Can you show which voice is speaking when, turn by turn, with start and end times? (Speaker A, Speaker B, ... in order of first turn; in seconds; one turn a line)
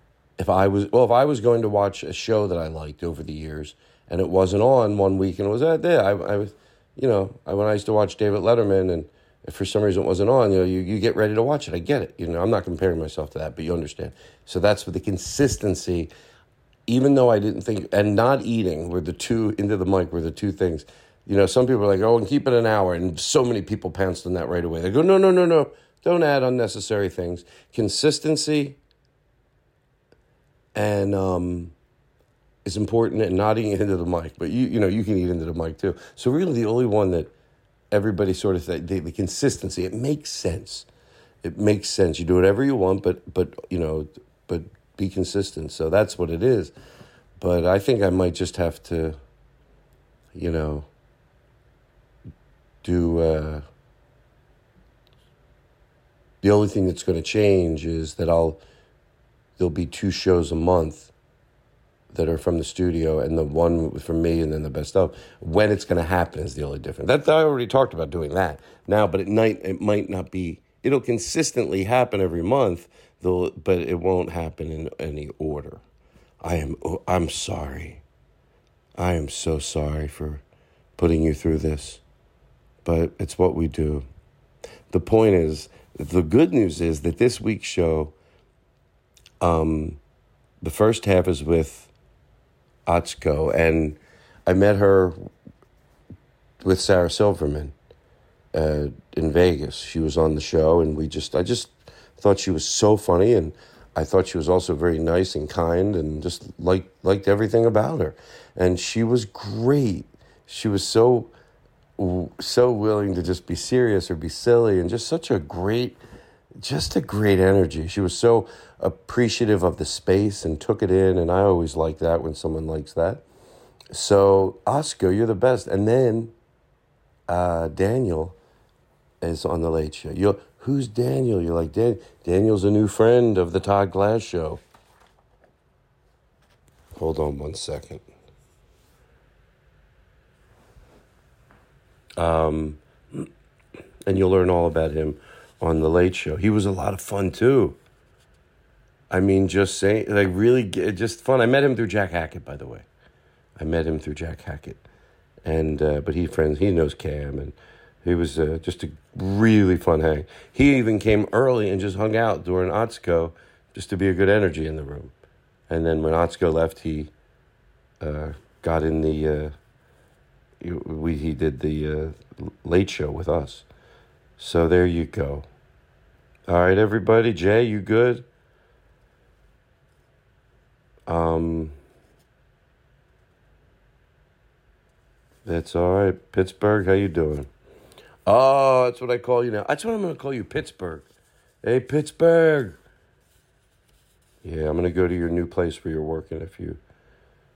Speaker A: 0.4-16.1
Speaker A: 16.9-28.8
Speaker A: 30.8-31.7
Speaker A: 32.6-37.3
Speaker A: 37.9-40.9
Speaker A: 41.4-46.7
Speaker A: 47.4-49.2
Speaker A: 50.3-50.9
Speaker A: 52.8-53.6
Speaker A: 56.4-58.6
Speaker A: 59.6-61.1
Speaker A: 62.1-75.8
Speaker A: 76.4-78.0
Speaker A: 79.0-80.4
Speaker A: 81.0-82.0
Speaker A: 82.8-84.1
Speaker A: 84.9-88.1
Speaker A: 89.4-90.0
Speaker A: 90.6-91.9
Speaker A: 92.9-95.2
Speaker A: 96.6-97.8
Speaker A: 98.5-111.3
Speaker A: 112.0-116.0
Speaker A: 116.6-123.2
Speaker A: 123.9-126.3
Speaker A: 127.3-128.4
Speaker A: 129.2-134.6
Speaker A: 136.9-138.0
Speaker A: 142.2-143.3
Speaker A: 144.1-147.8
Speaker A: 149.1-152.9
Speaker A: 153.6-154.8
Speaker A: 155.4-165.1
Speaker A: 165.7-167.1
Speaker A: 168.0-169.5
Speaker A: 170.6-173.7
Speaker A: 174.4-175.5
Speaker A: 176.5-178.3
Speaker A: 181.1-181.8
Speaker A: 185.4-187.5
Speaker A: 188.3-191.1
Speaker A: 191.6-192.8
Speaker A: 194.4-196.8